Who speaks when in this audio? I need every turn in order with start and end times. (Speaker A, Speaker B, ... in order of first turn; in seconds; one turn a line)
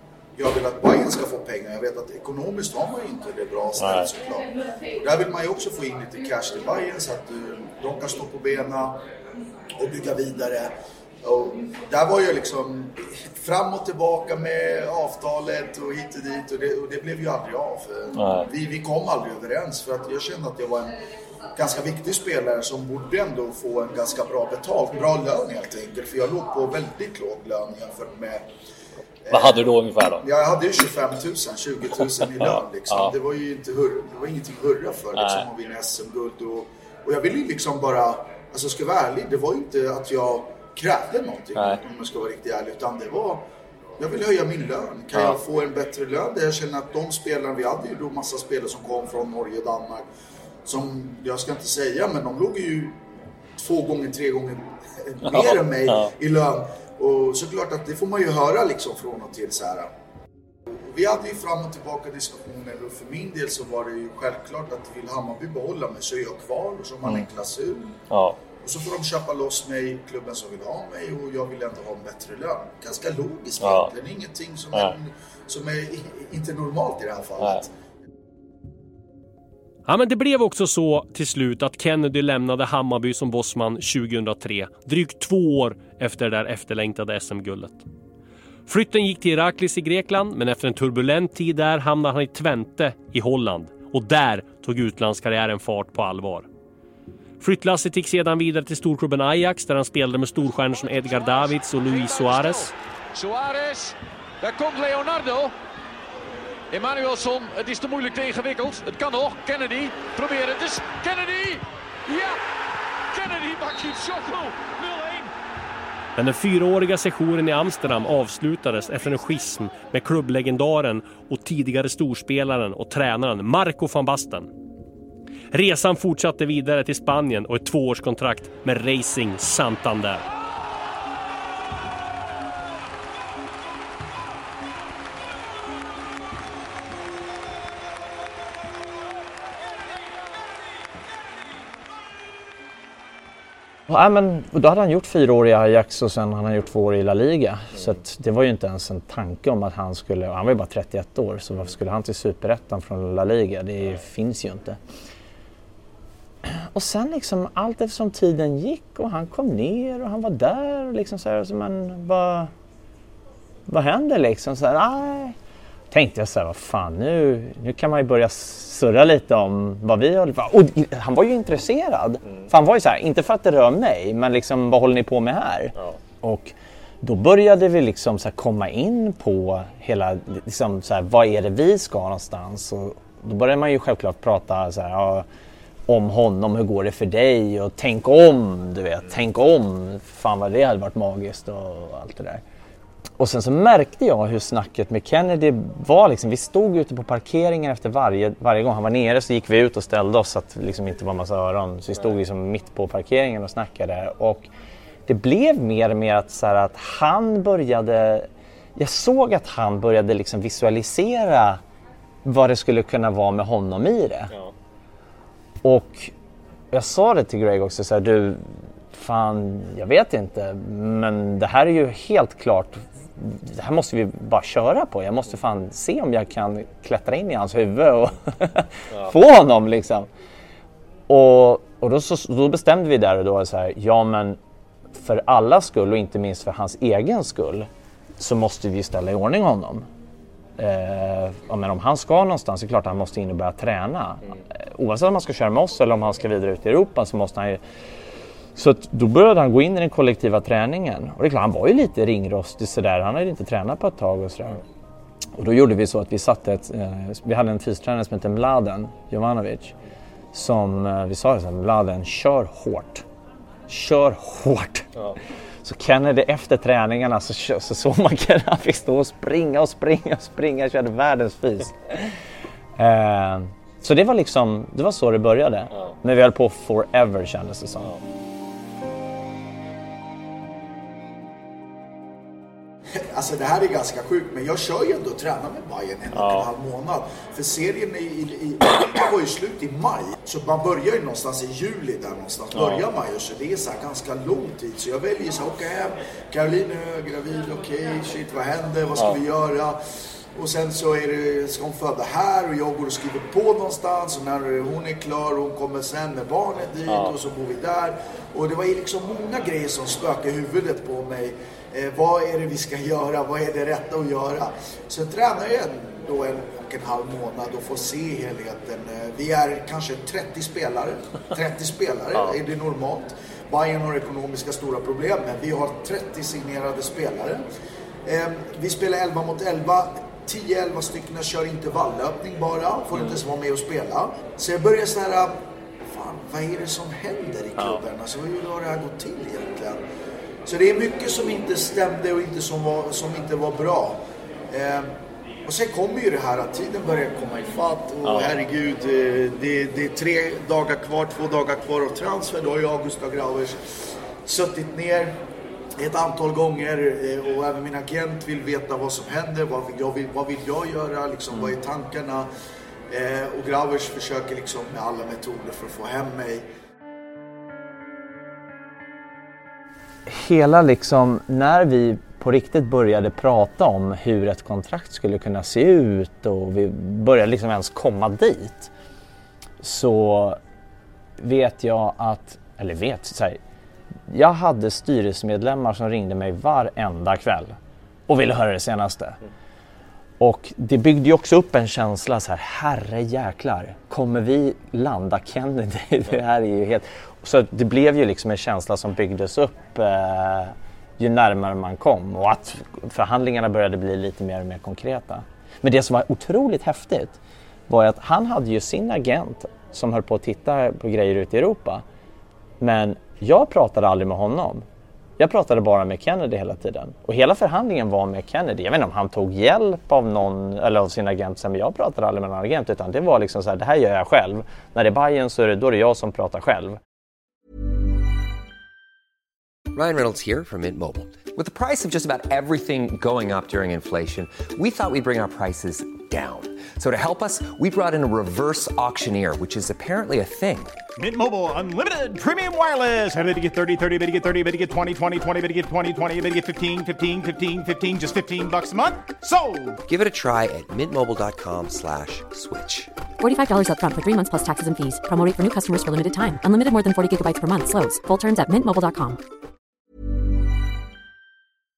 Speaker A: 0.4-4.5
Speaker B: 3.8-4.1
Speaker A: 5.0-9.0
Speaker A: 9.8-10.7
Speaker A: 11.2-21.0
Speaker B: 18.1-18.5
Speaker A: 21.6-28.4
Speaker A: 29.3-43.5
Speaker B: 29.3-30.3
Speaker B: 32.4-33.1
Speaker B: 35.1-35.5
Speaker B: 41.5-41.8
Speaker A: 44.0-50.1
Speaker B: 45.1-45.4
Speaker A: 50.6-53.0
Speaker A: 53.6-59.9
Speaker B: 55.2-56.1
Speaker A: 60.7-68.0
Speaker B: 68.1-68.4
Speaker A: 68.6-77.7
Speaker B: 73.6-73.9
Speaker B: 77.4-77.6
Speaker C: 79.9-87.8
Speaker C: 88.7-96.5
Speaker C: 97.4-102.7
Speaker D: 100.6-105.5
Speaker D: 106.7-112.4
Speaker D: 113.1-115.3
Speaker C: 116.2-124.5
Speaker C: 125.5-130.2
Speaker E: 143.9-154.8
Speaker E: 156.4-162.5
Speaker E: 163.7-165.4
Speaker E: 165.9-185.3
Speaker B: 172.2-172.5
Speaker E: 185.9-192.4
Speaker E: 193.2-204.5
Speaker E: 205.1-211.6
Speaker E: 212.2-214.3
Speaker E: 215.6-216.1
Speaker E: 216.7-230.1
Speaker E: 231.1-234.4
Speaker E: 234.9-237.7
Speaker E: 238.2-239.9
Speaker E: 240.6-247.6
Speaker E: 248.6-254.6
Speaker E: 255.4-259.8
Speaker E: 260.3-263.1
Speaker E: 263.7-264.9
Speaker E: 265.6-272.1
Speaker E: 272.8-277.9
Speaker A: 283.0-299.8
Speaker B: 286.1-286.5
Speaker B: 292.5-292.8
Speaker A: 300.4-327.4
Speaker B: 306.9-307.1
Speaker A: 328.1-335.4
Speaker A: 335.9-339.8
Speaker B: 337.6-337.8
Speaker A: 340.5-344.9
Speaker A: 345.4-353.6
Speaker B: 348.0-348.4
Speaker A: 354.2-355.2
Speaker A: 355.8-362.3
Speaker A: 362.9-366.4
Speaker E: 370.1-378.7
Speaker E: 379.6-380.4
Speaker E: 381.2-383.4
Speaker E: 384.1-387.6
Speaker E: 388.1-389.2
Speaker E: 390.2-407.2
Speaker E: 407.7-411.8
Speaker E: 412.6-414.6
Speaker E: 415.2-426.8
Speaker F: 429.7-440.8
Speaker G: 441.0-449.8
Speaker F: 449.9-452.9
Speaker H: 453.2-459.2